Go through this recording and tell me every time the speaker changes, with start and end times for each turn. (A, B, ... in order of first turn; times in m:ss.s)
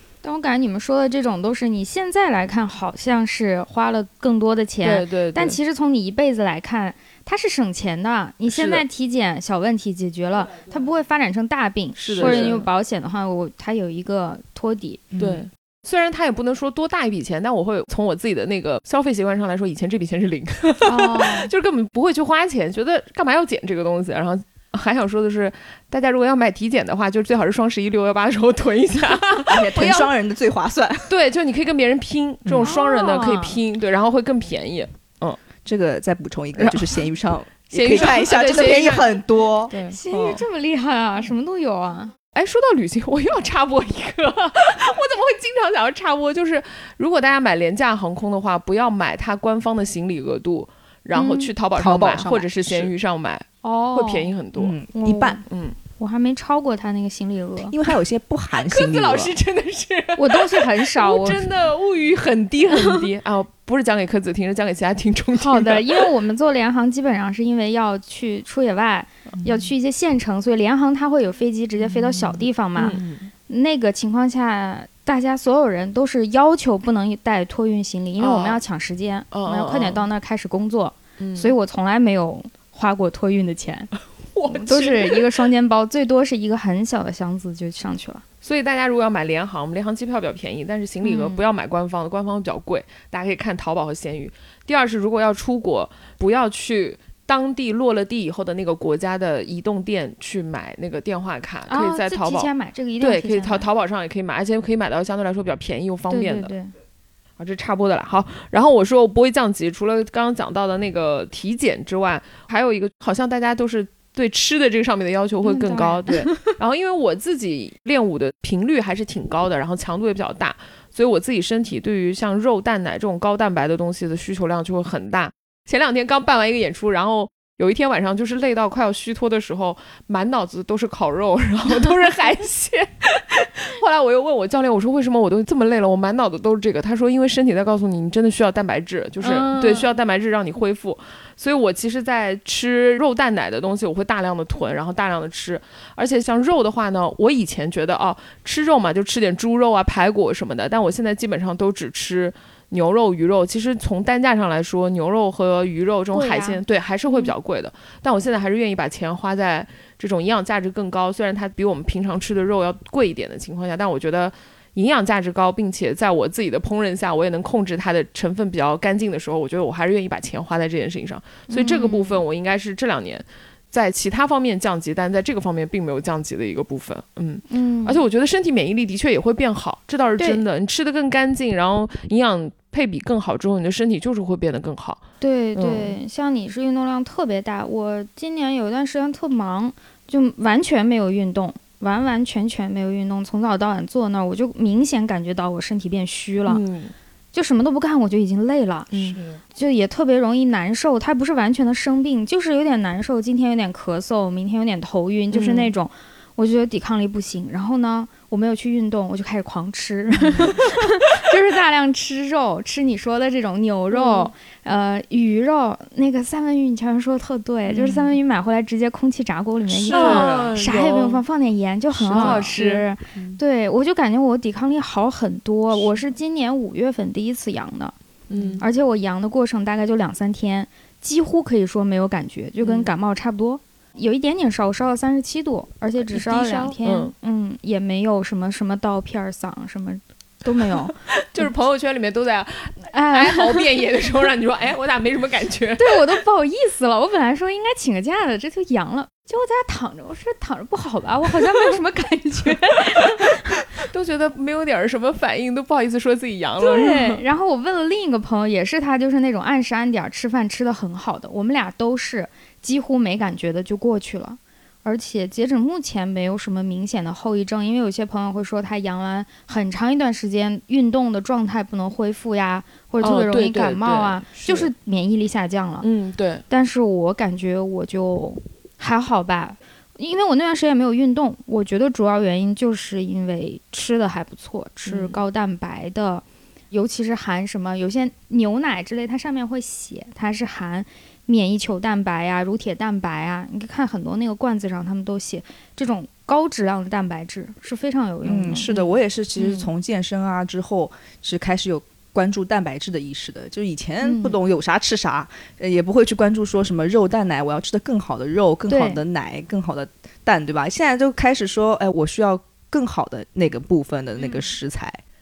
0:00.2-0:15.0 A
0:04.8-0:05.6 B
0:08.5-0:08.8 B
0:12.0-0:12.7 B
0:12.1-0:12.6 C
0:15.1-0:15.4 C
0:15.2-0:30.1 B
0:20.8-0:21.5 A
0:29.5-0:31.1 C
0:31.1-0:35.4 B
0:32.4-0:32.7 C
0:32.6-0:33.6 A
0:35.6-0:40.4 C
0:36.6-0:37.1 B
0:37.7-0:39.2 B
0:39.7-0:40.0 B
0:39.8-0:42.1 A
0:42.3-0:54.7 B
0:51.1-0:51.5 A
0:51.8-0:52.9 C
0:53.6-0:54.3 A
0:54.6-0:55.4 C
0:54.9-0:55.4 A
0:55.5-0:55.8 B
0:56.0-0:57.7 A
0:57.7-0:59.4 C
0:58.6-1:06.1 B
1:00.2-1:01.5 A
1:02.7-1:03.0 A
1:05.3-1:23.9 A
1:11.8-1:12.4 C
1:12.8-1:13.3 B
1:18.2-1:18.6 B
1:19.3-1:20.0 B
1:21.2-1:21.5 B
1:24.3-1:25.3 B
1:24.4-1:28.2 A
1:28.4-1:46.5 B
1:31.0-1:31.4 A
1:41.7-1:43.7 A
1:46.1-1:46.7 A
1:47.4-3:05.0 B
1:55.4-1:56.5 A
2:19.2-2:19.9 A
2:36.1-2:37.3 A
2:51.5-2:52.2 A
2:57.5-2:58.0 A
3:05.2-3:16.6 A
3:05.5-3:06.0 B
3:16.5-3:16.9 B
3:17.3-3:18.9 A
3:18.9-3:19.4 B
3:19.5-3:47.9 A
3:25.3-3:25.7 B
3:30.3-3:30.6 C
3:33.9-3:34.3 B
3:37.7-3:38.0 B
3:39.7-3:40.6 C
3:39.9-3:41.2 B
3:42.0-3:42.9 B
3:42.1-3:42.6 C
3:48.3-3:48.6 B
3:48.4-3:48.6 C
3:48.6-4:01.5 A
3:52.6-3:52.9 B
3:56.1-3:57.1 B
4:01.2-4:06.0 B
4:02.9-4:03.7 A
4:05.8-4:13.6 A
4:13.7-4:17.2 B
4:16.6-4:35.9 A
4:33.0-4:34.7 B
4:35.8-4:36.4 B
4:36.5-4:59.7 A
4:44.9-4:45.2 B
4:58.2-5:15.0 C
5:04.0-5:04.4 A
5:08.7-5:09.0 A